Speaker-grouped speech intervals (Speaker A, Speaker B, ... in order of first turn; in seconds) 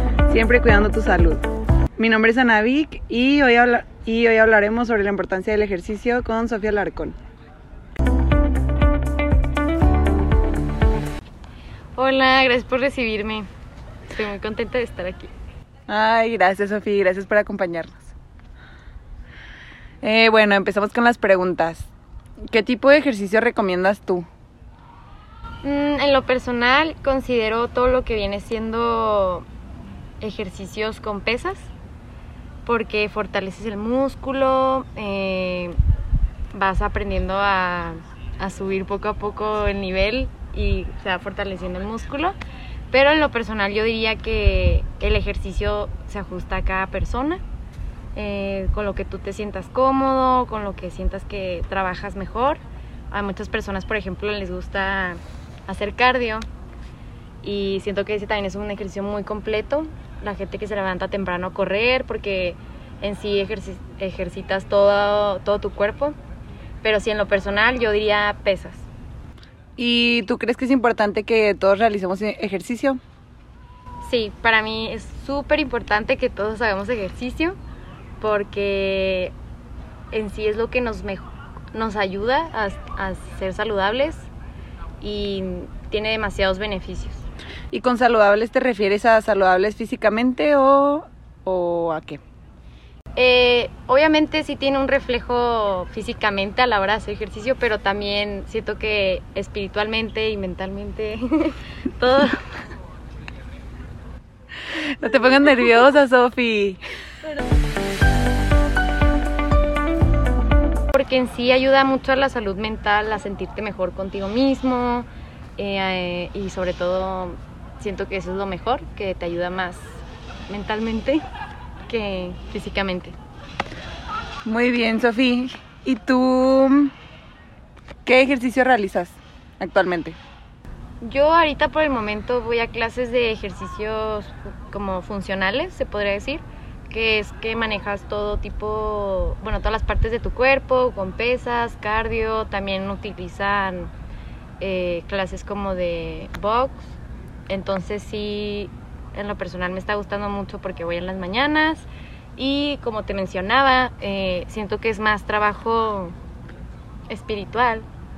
Speaker A: 0.3-1.4, 2.0-7.2, 15.9-18.1, 20.0-21.9, 22.5-24.3, 69.8-73.0, 87.7-92.2, 105.0-106.8, 124.4-126.9, 128.1-130.2
Speaker B: 11.9-13.5, 14.1-15.3, 25.6-29.5, 30.2-31.7, 32.6-35.8, 36.5-42.4, 42.9-47.4, 48.1-52.6, 53.1-56.5, 57.4-66.2, 66.8-68.8, 74.0-77.6, 78.2-79.3, 80.1-84.3, 85.0-87.2, 93.2-102.4, 110.9-121.2, 121.9-123.2, 131.0-143.9, 144.6-146.9, 147.5-156.2, 157.1-157.8